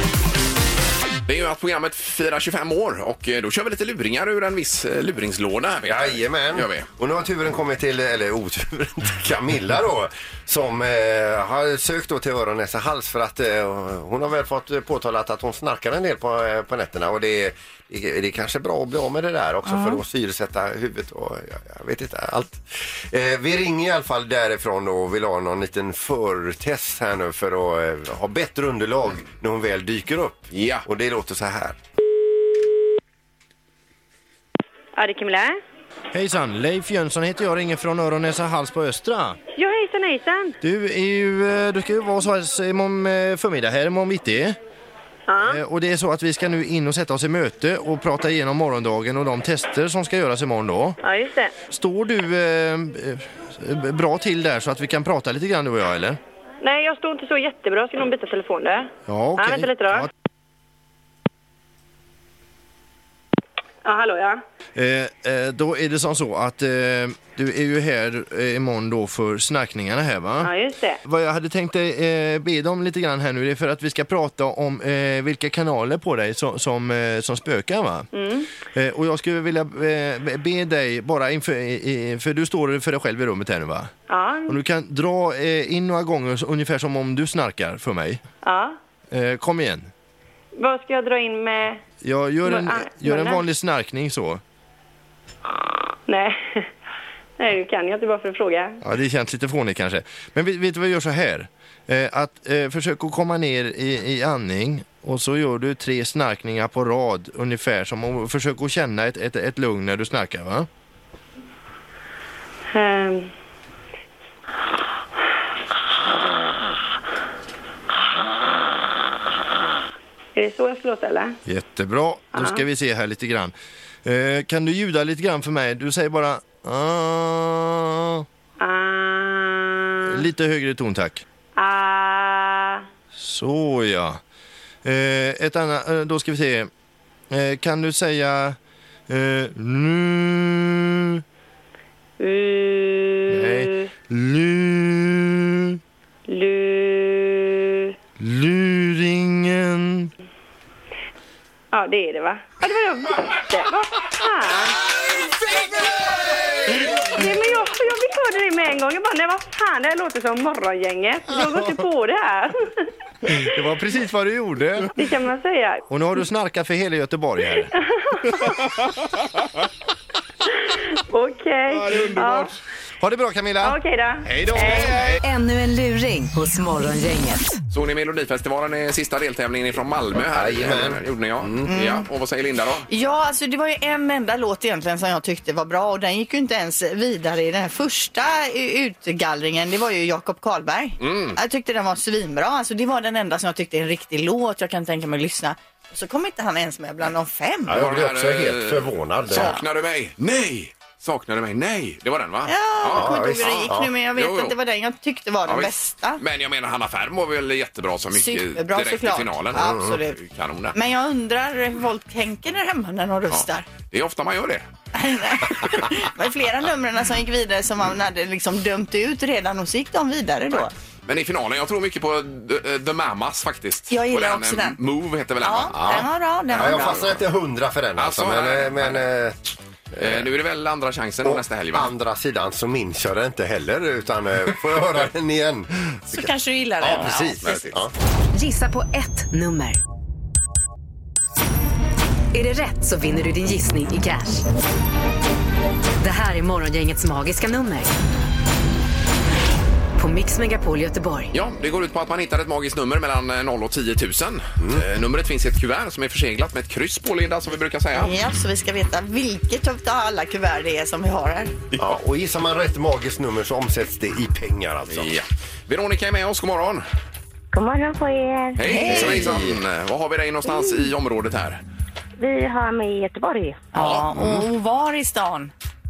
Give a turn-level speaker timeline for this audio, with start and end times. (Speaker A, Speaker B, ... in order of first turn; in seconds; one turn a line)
Speaker A: 1.2-6.9
Speaker B: 5.8-31.8
Speaker C: 19.6-20.0
Speaker A: 30.5-30.8
Speaker D: 35.0-35.6
Speaker E: 36.1-39.4
Speaker D: 39.5-40.5
Speaker E: 40.6-44.6
Speaker D: 45.3-45.6
Speaker E: 45.4-51.0
Speaker D: 51.0-51.5
Speaker E: 51.7-56.2
Speaker D: 56.6-60.1
Speaker E: 59.1-60.1
Speaker D: 63.8-64.4
Speaker E: 64.8-70.5
Speaker D: 70.4-71.0
Speaker E: 71.0-78.1
Speaker D: 78.1-78.5
Speaker E: 78.7-83.9
Speaker D: 84.1-84.6
Speaker E: 84.5-88.2
Speaker D: 88.4-88.8
Speaker E: 89.1-89.9
Speaker D: 90.6-91.8
Speaker E: 92.0-94.4
Speaker D: 92.4-93.5
Speaker D: 96.1-96.7
Speaker D: 97.4-98.8
Speaker E: 98.8-110.7
Speaker D: 112.7-113.3
Speaker D: 120.3-121.4
Speaker E: 121.5-123.5
Speaker D: 122.3-122.7
Speaker E: 124.0-128.2
Speaker D: 128.6-130.2
Speaker E: 130.1-131.2
Speaker D: 131.6-132.8
Speaker E: 133.1-134.2
Speaker E: 134.8-136.7
Speaker E: 137.3-138.6
Speaker E: 139.1-141.2
Speaker D: 142.2-143.9
Speaker E: 143.3-145.8
Speaker D: 146.3-147.9
Speaker E: 148.2-150.1
Speaker D: 151.7-154.8
Speaker D: 156.7-162.7
Speaker E: 161.3-161.7
Speaker E: 163.3-164.9
Speaker D: 164.9-166.2
Speaker E: 165.9-167.7
Speaker D: 167.8-168.6
Speaker E: 168.3-168.6
Speaker D: 171.1-172.5
Speaker E: 171.8-172.5
Speaker E: 173.0-175.2
Speaker D: 173.6-175.2
Speaker F: 175.2-177.5
Speaker A: 177.7-182.9
Speaker B: 180.3-181.7
Speaker C: 181.7-182.1
Speaker C: 182.9-197.8
Speaker A: 191.0-191.4
Speaker B: 197.7-199.6
Speaker A: 197.7-204.5
Speaker C: 202.4-206.2
Speaker B: 202.9-203.9
Speaker A: 205.4-210.8
Speaker C: 208.1-210.2
Speaker B: 209.5-209.9
Speaker C: 210.7-213.7
Speaker A: 213.3-214.6
Speaker C: 214.9-220.7
Speaker A: 221.1-227.2
Speaker C: 223.9-224.8
Speaker C: 225.4-227.0
Speaker B: 225.7-229.4
Speaker A: 228.0-229.1
Speaker B: 229.9-230.3
Speaker A: 229.9-231.9
Speaker B: 231.2-236.2
Speaker C: 236.1-237.6
Speaker B: 236.8-237.9
Speaker A: 236.9-237.8
Speaker F: 238.3-239.8
Speaker F: 242.3-244.4
Speaker F: 246.0-247.9
Speaker F: 250.0-251.3
Speaker A: 251.3-258.2
Speaker C: 257.9-261.5
Speaker B: 261.7-265.1
Speaker A: 264.9-266.8
Speaker G: 267.5-268.6
Speaker A: 268.6-271.6
Speaker C: 268.6-269.4
Speaker B: 268.7-269.6
Speaker G: 270.4-270.9
Speaker G: 272.2-273.6
Speaker C: 273.7-275.5
Speaker A: 273.8-274.1